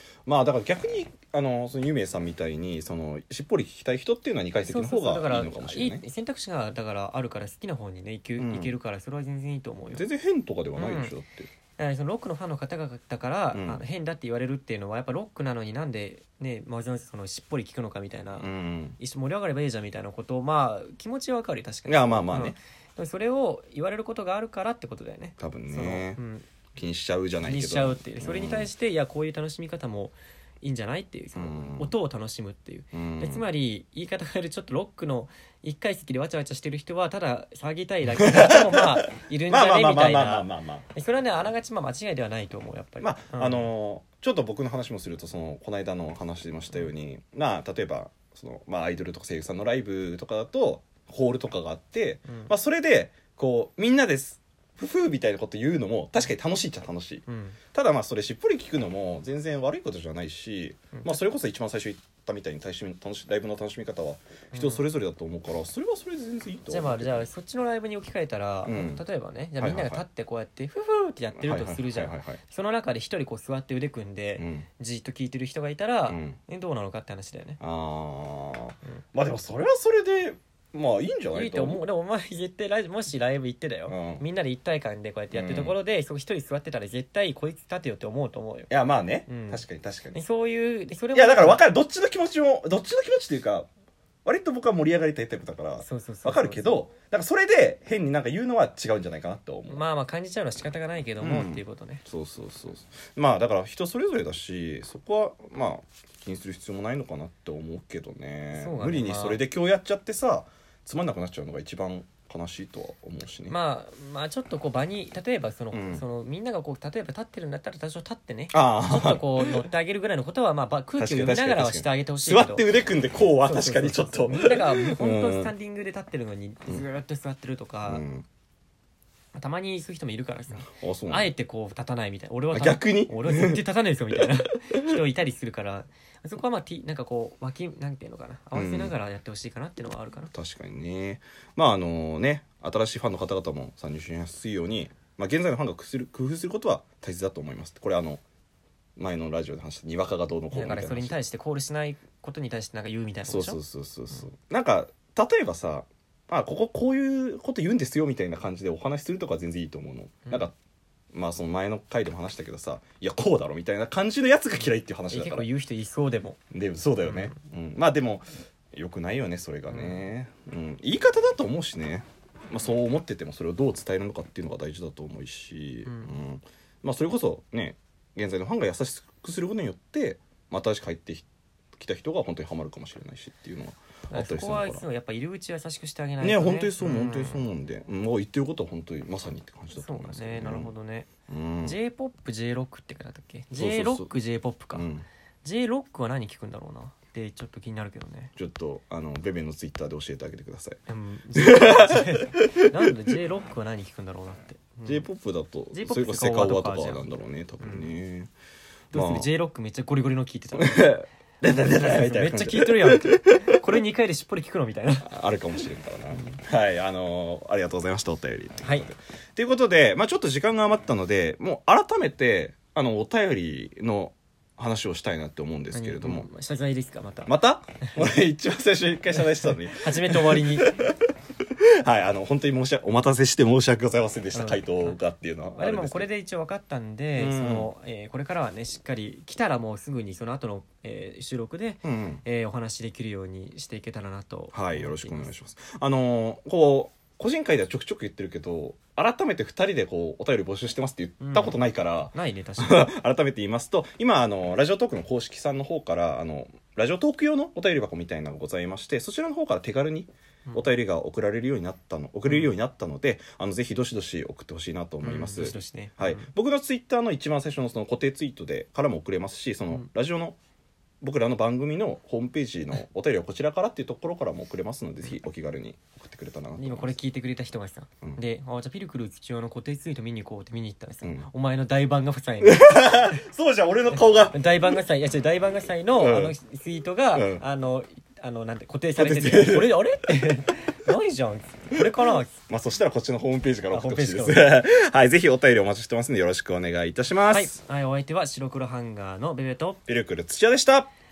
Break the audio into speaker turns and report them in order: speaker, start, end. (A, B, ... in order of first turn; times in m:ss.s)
0:00.3-0:06.0 A
0:04.6-0:10.1 B
0:08.4-0:08.7 A
0:09.9-0:11.5 A
0:10.8-0:11.2 B
0:11.8-0:26.5 B
0:13.5-0:13.8 A
0:18.4-0:19.0 A
0:21.9-0:22.6 A
0:25.4-0:26.2 A
0:26.8-0:28.7 A
0:27.4-0:43.7 B
0:31.4-0:31.9 A
0:32.9-0:33.4 A
0:38.2-0:40.8 A
0:43.0-1:07.3 A
0:57.3-0:57.6 B
1:04.5-1:04.9 B
1:06.7-1:17.6 B
1:08.6-1:09.0 A
1:09.6-1:10.0 A
1:11.4-1:12.4 A
1:14.4-1:14.7 A
1:16.1-1:16.4 A
1:17.6-1:21.8 A
1:21.3-1:28.7 B
1:23.9-1:24.2 A
1:25.3-1:25.8 A
1:28.7-1:30.2 A
1:29.3-1:31.6 B
1:31.1-1:33.7 A
1:34.2-1:39.8 A
1:35.8-1:36.8 B
1:39.7-1:42.0 B
1:41.2-1:53.6 A
1:48.5-1:49.4 B
1:53.5-2:02.7 B
1:55.7-1:56.0 A
1:58.5-1:59.6 A
2:01.0-2:05.5 A
2:03.4-2:08.0 B
2:07.9-2:08.3 A
2:09.3-2:20.3 B
2:10.7-2:11.3 A
2:12.5-2:13.6 A
2:14.2-2:15.0 A
2:18.5-2:18.9 A
2:20.3-2:28.2 A
2:29.0-2:31.2 A
2:30.5-2:33.6 B
2:33.2-2:40.6 A
2:41.1-2:45.5 A
2:45.1-2:46.4 B
2:46.5-3:04.8 A
2:47.0-2:47.4 B
2:49.7-2:50.0 B
2:55.8-2:56.2 B
3:04.1-3:07.5 B
3:06.2-3:10.7 A
3:09.7-3:11.1 B
3:11.3-3:11.8 A
3:11.6-3:14.9 B
3:13.5-3:14.1 A
3:14.7-3:15.0 A
3:15.4-3:18.3 B
3:18.4-3:20.8 A
3:20.9-3:25.1 B
3:21.4-3:22.6 A
3:24.9-3:28.3 A
3:25.7-3:27.1 B
3:27.6-3:27.9 B
3:28.9-3:30.9 B
3:28.9-3:29.3 A
3:30.6-3:33.6 A
3:31.7-3:35.1 B
3:35.0-3:46.3 A
3:38.6-3:38.9 B
3:45.7-3:47.3 B
3:47.3-3:51.0 A
3:49.2-3:50.8 B
3:51.8-3:56.1 A
3:54.3-3:55.0 B
3:55.6-4:05.3 B
3:57.2-3:57.7 A
4:01.8-4:02.2 A
4:04.5-4:30.4 A
4:11.2-4:11.6 B
4:12.1-4:12.9 B
4:22.3-4:22.5 B
4:25.0-4:26.3 B
4:31.0-4:37.0 A
4:36.6-4:43.1 B
4:41.0-4:41.3 A
4:42.4-4:44.8 A
4:43.9-4:52.3 B
4:46.0-4:46.4 A
4:47.1-4:47.4 A
4:49.0-4:50.1 A
4:52.3-4:57.6 A
4:53.7-4:54.6 B
4:57.3-4:59.8 B
4:59.9-5:00.9 A